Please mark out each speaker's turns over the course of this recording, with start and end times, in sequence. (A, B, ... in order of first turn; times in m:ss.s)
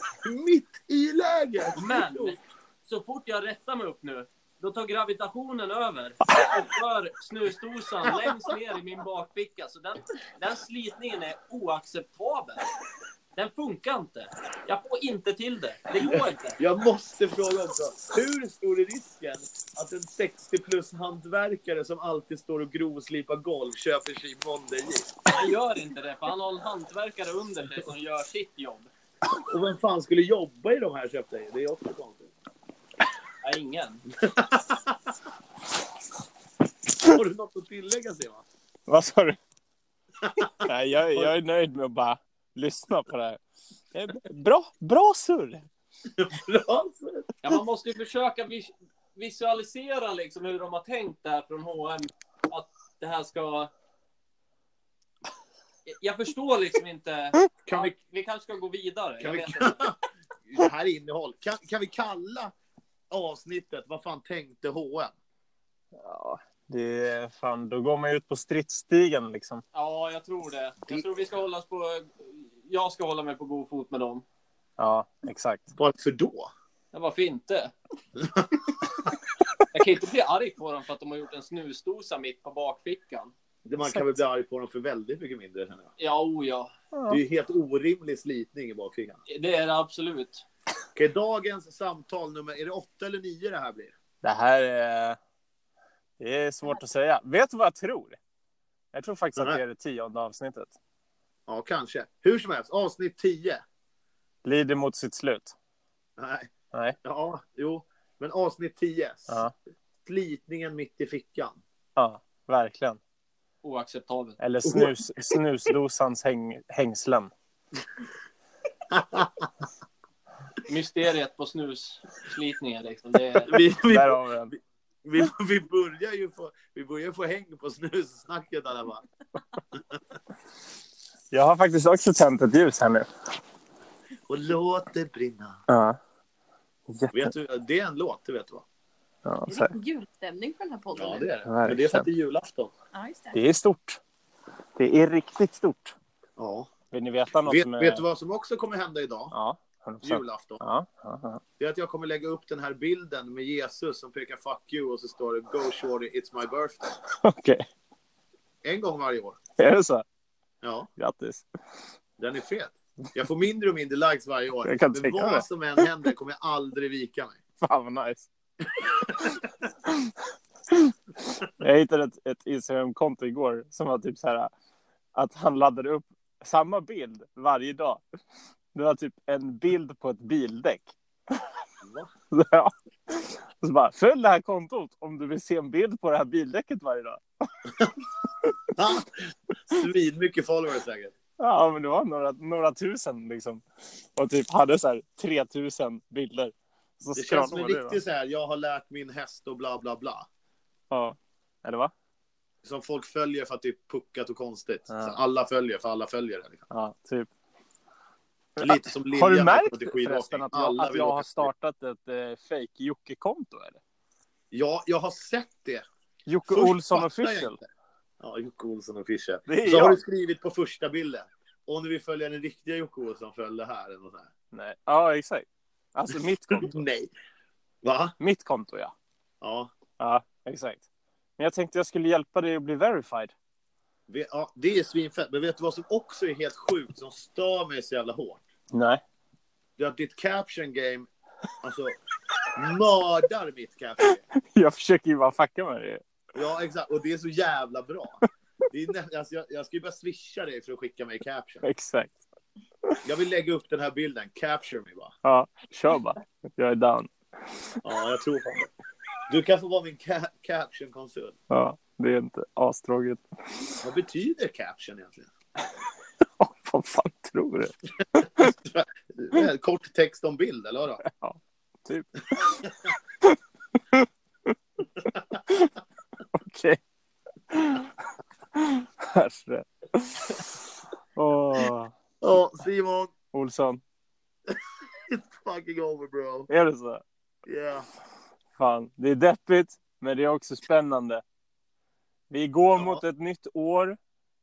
0:00.2-0:02.4 A
0:01.7-0:12.7 B
0:13.3-0:16.6 B
0:16.1-0:25.1 A
0:25.3-0:28.9 B
0:29.5-0:32.3 A
0:33.4-0:34.0 B
0:34.2-0:35.0 A
0:37.0-0:38.4 A
0:38.9-0:39.4 C
0:40.2-0:40.6 A
0:40.6-0:43.4 C
0:43.9-0:45.6 C
0:46.2-0:47.3 A
0:47.4-0:53.7 B
0:55.8-0:59.8 B
0:57.6-0:57.9 A
0:59.2-1:02.5 A
1:03.1-1:05.1 A
1:05.9-1:09.6 C
1:09.7-1:14.2 B
1:14.8-1:15.7 C
1:15.7-1:16.5 A
1:16.9-1:17.7 B
1:18.2-1:18.5 A
1:19.7-1:23.3 B
1:23.6-1:25.9 A
1:23.8-1:24.2 C
1:26.0-1:26.7 B
1:26.9-1:27.2 C
1:27.1-1:29.2 A
1:29.3-1:30.4 B
1:31.0-1:33.9 A
1:34.2-1:35.2 C
1:36.2-1:38.2 C
1:38.9-1:40.7 C
1:41.5-1:43.6 A
1:44.4-1:45.5 C
1:46.2-1:46.5 A
1:47.0-1:49.4 A
1:50.0-1:51.6 A
1:52.0-1:53.0 C
1:53.6-1:54.4 B
1:54.4-1:57.3 C
1:54.6-1:54.9 A
1:58.9-1:59.5 A
2:00.6-2:03.5 B
2:03.4-2:04.5 A
2:03.5-2:04.5 C
2:05.0-2:09.0 A
2:11.3-2:13.1 C
2:14.3-2:15.6 A
2:15.7-2:16.0 C
2:16.9-2:17.3 C
2:17.1-2:18.6 A
2:19.2-2:19.7 C
2:19.5-2:21.3 D
2:20.9-2:22.7 A
2:21.4-2:22.1 C
2:22.9-2:23.4 D
2:23.3-2:24.0 C
2:24.8-2:25.9 C
2:26.4-2:26.7 A
2:26.9-2:28.0 C
2:27.4-2:29.3 A
2:29.3-2:31.4 C
2:30.0-2:30.6 A
2:31.6-2:36.8 A
2:37.0-2:37.7 C
2:38.6-2:39.4 A
2:39.6-2:40.0 C
2:40.6-2:40.9 A
2:41.0-2:41.4 C
2:42.2-2:47.4 A
2:44.6-2:45.9 C
2:47.6-2:48.3 C
2:49.0-2:49.3 C
2:49.0-2:49.3 A
2:49.8-2:50.2 C
2:50.7-2:54.5 C
2:55.1-2:58.0 C
2:58.7-3:01.5 C
3:01.8-3:02.1 A
3:02.3-3:07.2 C
3:08.7-3:11.1 A
3:11.4-3:13.6 C
3:14.1-3:18.0 C
3:17.1-3:20.3 A
3:20.9-3:21.9 C
3:22.6-3:26.6 A
3:24.9-3:25.2 C
3:26.7-3:27.3 C
3:28.6-3:33.8 C
3:28.6-3:31.5 A
3:34.5-3:35.8 A
3:36.3-3:37.6 C
3:36.5-3:37.7 A
3:38.2-3:44.3 A
3:39.5-3:40.0 C
3:44.5-3:46.8 C
3:46.5-3:47.1 A
3:47.8-3:48.1 A
3:48.2-3:48.9 C
3:49.4-3:49.7 A
3:50.0-3:50.8 C
3:51.4-3:53.3 C
3:54.1-3:58.4 A
3:58.7-3:59.0 C
3:59.8-4:01.1 A
4:01.6-4:02.0 A
4:02.5-4:04.2 A
4:04.3-4:06.0 C
4:06.3-4:11.6 A
4:11.6-4:12.2 C
4:13.0-4:15.1 A
4:15.2-4:17.8 C
4:17.8-4:18.7 A
4:19.3-4:21.4 A
4:21.5-4:23.6 C
4:23.8-4:25.3 A
4:26.2-4:28.5 C
4:28.4-4:31.0 A
4:31.0-4:32.7 C
4:33.2-4:34.6 C
4:35.3-4:35.7 C
4:36.3-4:36.8 C
4:37.5-4:40.6 C
4:41.2-4:41.9 C
4:42.2-4:43.1 A
4:43.3-4:43.8 C
4:44.5-4:46.5 A
4:46.5-4:47.0 C
4:47.4-4:47.9 A
4:48.6-4:51.2 C
4:52.3-4:54.0 C
4:52.8-4:53.0 A